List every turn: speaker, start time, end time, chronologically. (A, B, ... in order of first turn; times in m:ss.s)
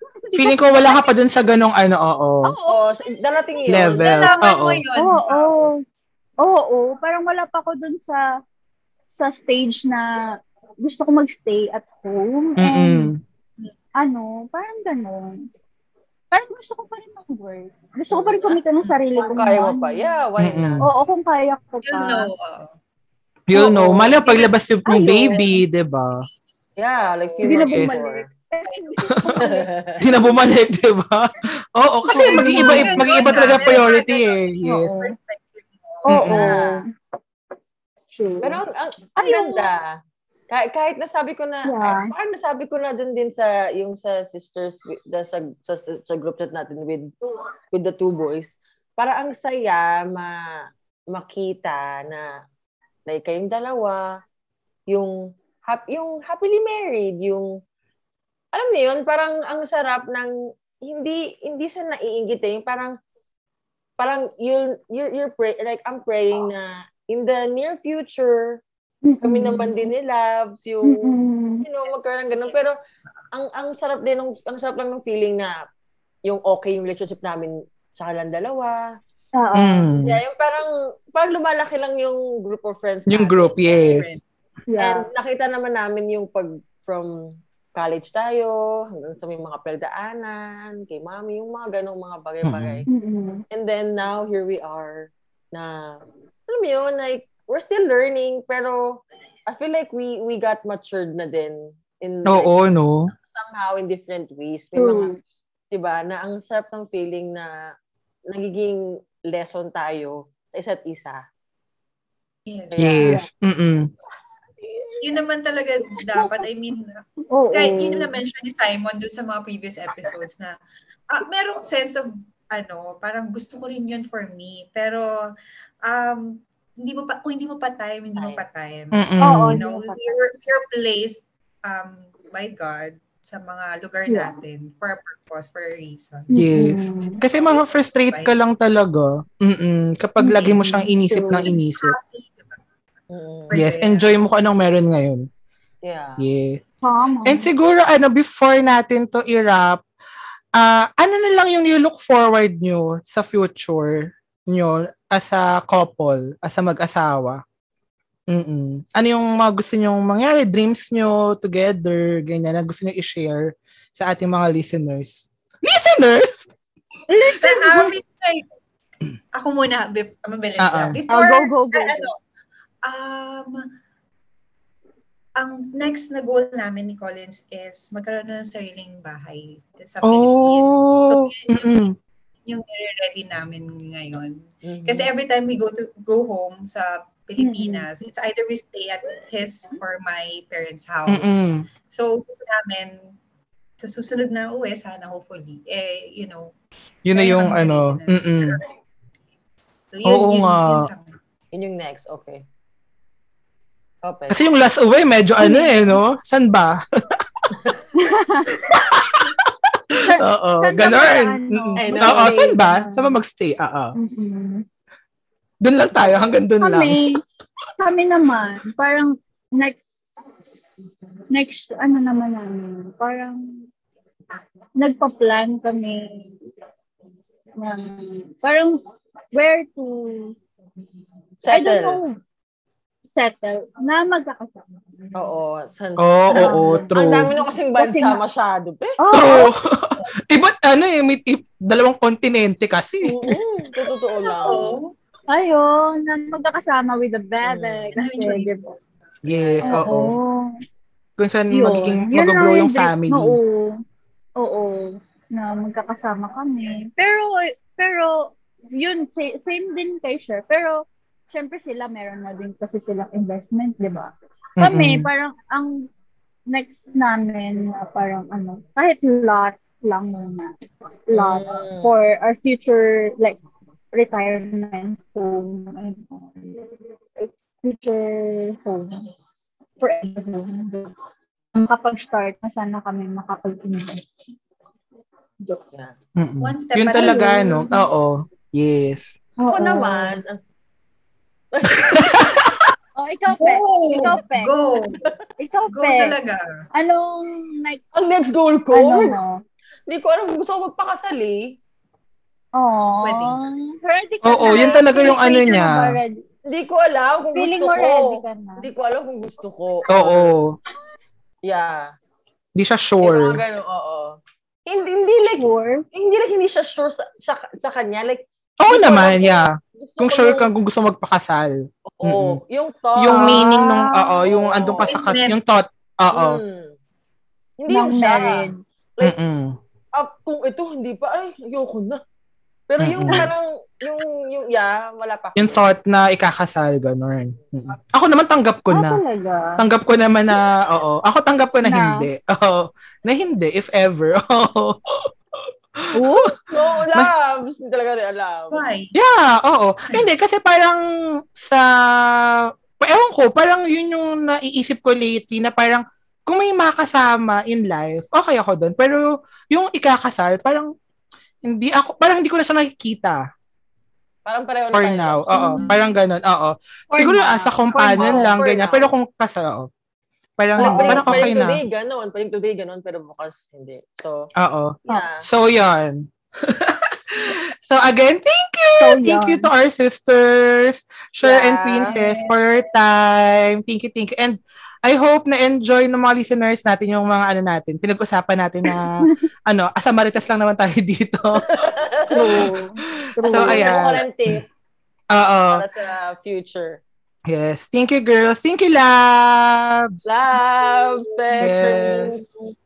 0:00.2-0:01.1 A
0:00.3-0:02.5 B
0:02.4-0:02.9 A
0:02.7-0:04.1 C
0:03.4-0:03.8 A
0:03.7-0:04.8 B
0:03.9-0:05.7 D
0:05.0-0:05.8 A
0:06.4-0:08.2 A
0:09.1-0:10.1 A
0:10.8-0:13.1 A
0:12.6-0:13.2 B
0:14.0-0:15.4 A
0:16.3-0:20.2 A
0:18.1-0:18.6 C
0:19.2-0:20.9 C
0:20.4-0:20.8 B
0:20.8-0:22.3 A
0:21.8-0:22.7 D
0:23.5-0:26.3 B
0:23.5-0:24.2 A
0:24.2-0:24.6 D
0:24.9-0:25.4 A
0:25.1-0:25.6 D
0:26.8-0:28.3 C
0:27.2-0:27.6 D
0:27.4-0:29.7 A
0:27.7-0:28.0 B
0:28.7-0:28.9 D
0:29.4-0:30.0 C
0:30.0-0:35.0 B
0:32.1-0:33.0 A
0:32.1-0:36.1 D
0:34.6-0:35.1 A
0:36.1-0:36.9 A
0:36.1-0:36.5 B
0:36.3-0:36.8 C
0:38.1-0:38.6 A
0:38.4-0:39.9 C
0:39.2-0:39.7 A
0:40.5-0:47.1 C
0:41.6-0:42.1 A
0:47.7-0:50.4 C
0:51.1-0:52.3 C
0:53.1-0:54.1 C
0:55.6-0:57.6 C
0:58.5-1:02.9 C
1:04.0-1:08.6 C
1:09.1-1:09.8 A
1:09.2-1:12.7 C
1:10.9-1:11.6 A
1:13.3-1:15.6 C
1:16.2-1:18.9 C
1:19.4-1:19.9 A
1:19.5-1:20.2 B
1:20.0-1:23.9 C
1:23.1-1:24.2 B
1:23.7-1:24.2 D
1:24.7-1:25.1 A
1:24.8-1:32.9 C
1:32.4-1:32.8 B
1:32.9-1:33.4 A
1:33.5-1:42.6 C
1:42.3-1:43.1 B
1:43.1-1:45.1 C
1:44.8-1:45.2 A
1:45.7-1:47.6 C
1:48.3-1:51.2 C
1:52.5-1:52.9 D
1:52.7-1:53.2 C
1:52.8-1:53.9 B
1:54.5-1:55.0 C
1:55.0-2:00.5 D
1:56.1-1:56.4 A
1:57.3-1:58.1 A
2:01.1-2:05.1 D
2:05.9-2:16.3 D
2:08.2-2:08.4 C
2:08.9-2:09.6 B
2:09.2-2:10.2 A
2:14.1-2:14.3 A
2:16.3-2:17.2 A
2:16.3-2:21.9 B
2:17.1-2:18.3 D
2:20.2-2:21.5 A
2:20.4-2:20.6 D
2:21.3-2:22.6 D
2:23.1-2:23.5 C
2:23.5-2:24.2 D
2:23.5-2:25.3 B
2:25.8-2:26.2 C
2:26.2-2:26.6 B
2:26.8-2:27.5 A
2:27.3-2:29.8 B
2:30.6-2:37.4 B
2:38.3-2:46.5 B
2:47.1-2:47.9 A
2:47.4-2:48.4 D
2:49.4-2:52.2 D
2:50.6-2:51.0 B
2:51.1-2:52.1 A
2:52.9-2:53.6 D
2:55.4-3:01.8 D
3:00.0-3:02.0 B
3:02.4-3:13.2 D
3:04.6-3:05.1 C
3:07.4-3:07.8 A
3:11.1-3:11.6 B
3:13.8-3:16.5 D
3:17.1-3:18.6 B
3:17.1-3:18.6 D
3:19.9-3:21.2 D
3:20.0-3:20.9 B
3:21.5-3:22.4 C
3:24.0-3:24.4 C
3:24.3-3:26.8 B
3:25.4-3:26.0 A
3:28.0-3:28.6 A
3:28.5-3:33.9 B
3:30.0-3:33.1 A
3:31.8-3:32.4 C
3:34.0-3:34.6 A
3:35.6-3:37.0 B
3:36.6-3:37.2 A
3:37.8-3:39.8 A
3:41.3-3:43.6 A
3:44.8-3:46.3 A
3:47.6-3:48.8 A
3:49.3-3:50.4 A
3:51.4-3:52.0 C
3:51.5-3:52.2 A
3:53.2-3:54.6 A
3:55.2-3:59.0 C
3:56.0-3:57.3 B
3:56.3-3:58.2 A
3:59.0-3:59.5 A
3:59.1-4:03.3 B
4:03.0-4:04.8 C
4:03.8-4:04.7 A
4:04.4-4:04.9 D
4:05.3-4:08.6 A
4:07.4-4:07.9 C
4:07.9-4:08.8 D
4:09.2-4:10.0 C
4:09.2-4:10.2 B
4:09.6-4:10.5 A
4:11.2-4:13.4 B
4:11.5-4:13.8 A
4:14.4-4:25.8 A
4:24.6-4:25.1 B
4:26.5-4:30.5 A
4:31.1-4:33.4 A
4:31.1-4:31.9 C
4:33.9-4:39.0 A
4:39.8-4:40.9 A
4:41.5-4:44.0 A
4:46.2-4:49.1 B
4:46.4-4:47.7 D
4:47.0-4:47.9 A
4:49.4-4:50.2 A
4:49.5-4:50.4 C
4:51.5-4:52.4 C
4:51.8-4:52.7 B
4:53.0-4:54.5 A
4:53.3-4:55.0 D
4:55.4-4:56.2 A
4:55.7-4:56.4 D
4:56.8-4:57.8 A
4:57.9-4:59.2 C
4:58.7-4:59.4 A
4:59.9-5:01.6 C
5:02.6-5:06.2 A
5:03.0-5:03.4 D
5:04.2-5:06.0 B
5:06.5-5:10.4 C
5:07.4-5:08.7 A
5:09.9-5:10.6 B
5:11.4-5:11.9 C
5:12.6-5:13.4 B
5:13.0-5:20.5 C
5:15.4-5:15.8 A
5:18.6-5:22.4 B
5:21.9-5:24.9 C
5:23.0-5:26.4 B
5:23.1-5:23.9 A
5:24.8-5:25.4 D
5:26.1-5:26.8 C
5:27.6-5:29.2 C
5:27.7-5:28.6 A
5:29.0-5:29.6 B
5:30.0-5:32.0 C
5:32.7-5:35.6 C
5:32.8-5:33.3 B
5:35.4-5:39.0 B
5:38.7-5:39.6 A
5:39.6-5:45.1 B
5:41.6-5:42.1 A
5:45.9-5:47.1 B
5:45.9-5:46.4 A
5:46.5-5:48.6 C
5:48.5-5:48.9 D
5:48.9-5:50.8 B
5:51.4-6:00.7 B
6:01.4-6:03.3 B
6:04.2-6:05.6 C
6:04.7-6:09.7 B
6:05.3-6:05.8 A
6:06.9-6:08.3 A
6:08.0-6:08.9 C
6:10.4-6:11.6 B
6:10.6-6:11.3 A
6:10.6-6:14.3 C
6:14.4-6:31.7 B
6:14.9-6:15.2 C
6:18.8-6:19.5 A
6:21.2-6:22.0 C
6:21.9-6:22.3 A
6:31.5-6:32.5 C
6:32.1-6:33.8 A
6:33.2-6:34.5 C
6:33.2-6:34.4 B
6:35.1-6:35.6 B
6:35.5-6:36.8 C
6:37.3-6:40.1 B
6:40.0-6:42.3 C
6:41.4-6:42.2 B